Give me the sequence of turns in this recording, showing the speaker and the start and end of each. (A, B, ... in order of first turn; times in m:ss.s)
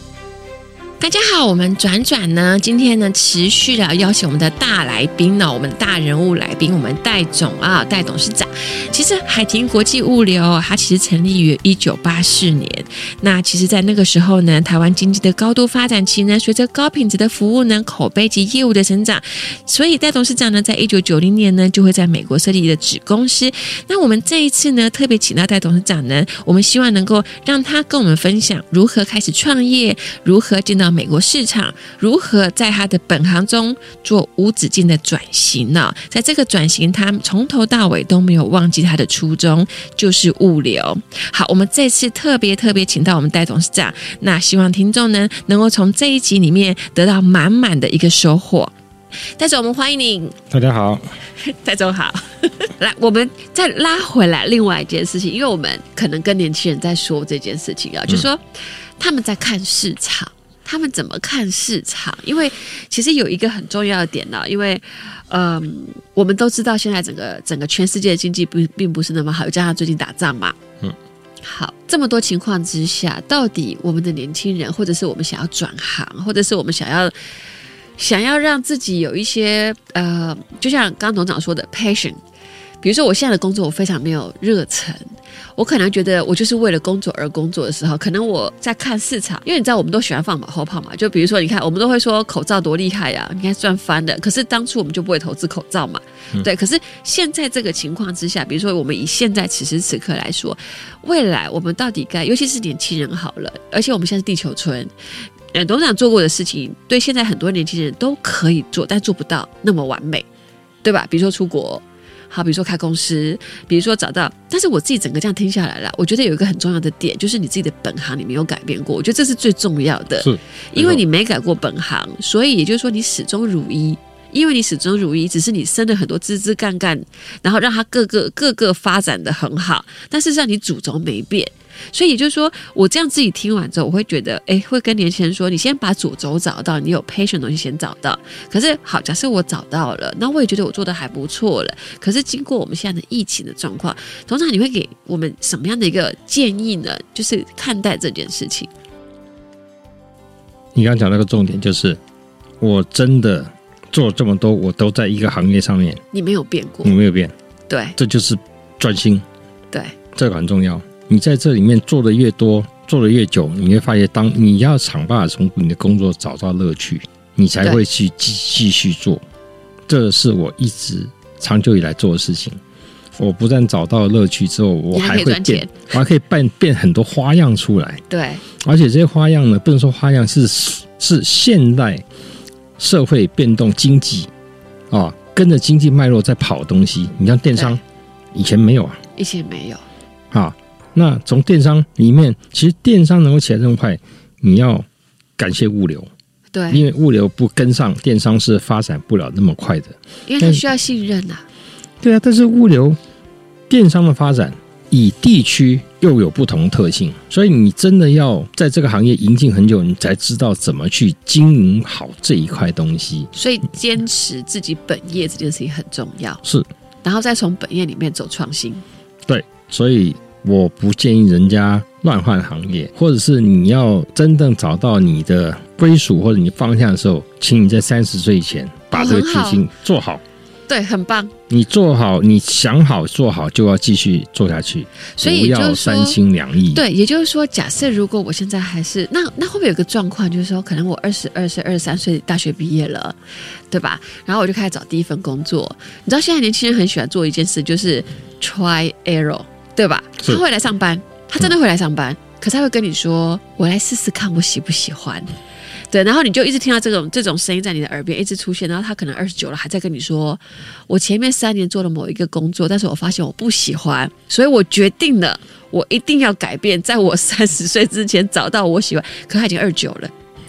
0:01.0-0:48.7 A
0:49.4-0:50.3 A
0:50.5-0:51.0 B
0:51.6-0:58.4 C
0:59.0-1:10.6 C
1:11.4-1:17.1 C
1:18.0-1:22.2 C
1:22.8-1:44.9 C
1:45.5-1:50.3 C
1:50.8-2:28.7 C
2:00.2-2:01.0 B
2:30.8-2:32.0 B
2:32.6-2:36.0 B
2:36.1-2:37.0 C
2:36.8-2:37.3 B
2:37.7-2:38.0 C
2:38.0-2:39.2 B
2:40.1-2:49.2 B
2:49.9-2:52.6 B
2:53.2-2:58.0 B
2:54.9-2:55.7 C
2:58.1-2:58.4 C
2:58.6-3:02.0 B
3:02.8-3:04.3 B
3:04.9-3:07.8 B
3:08.3-3:09.0 B
3:09.2-3:09.8 C
3:10.3-3:14.9 B
3:15.4-3:16.1 B
3:16.5-3:16.8 C
3:16.7-3:20.6 B
3:20.3-3:21.4 C
3:22.0-3:23.0 B
3:23.7-3:33.3 B
3:33.3-3:36.4 C
3:36.4-3:36.7 B
3:37.0-3:38.8 C
3:39.3-3:50.2 B
3:48.9-3:49.6 C
3:50.7-3:51.3 C
3:51.5-3:56.8 B
3:55.2-3:56.2 C
3:56.7-4:03.2 C
4:03.7-4:15.3 C
4:15.9-4:30.1 C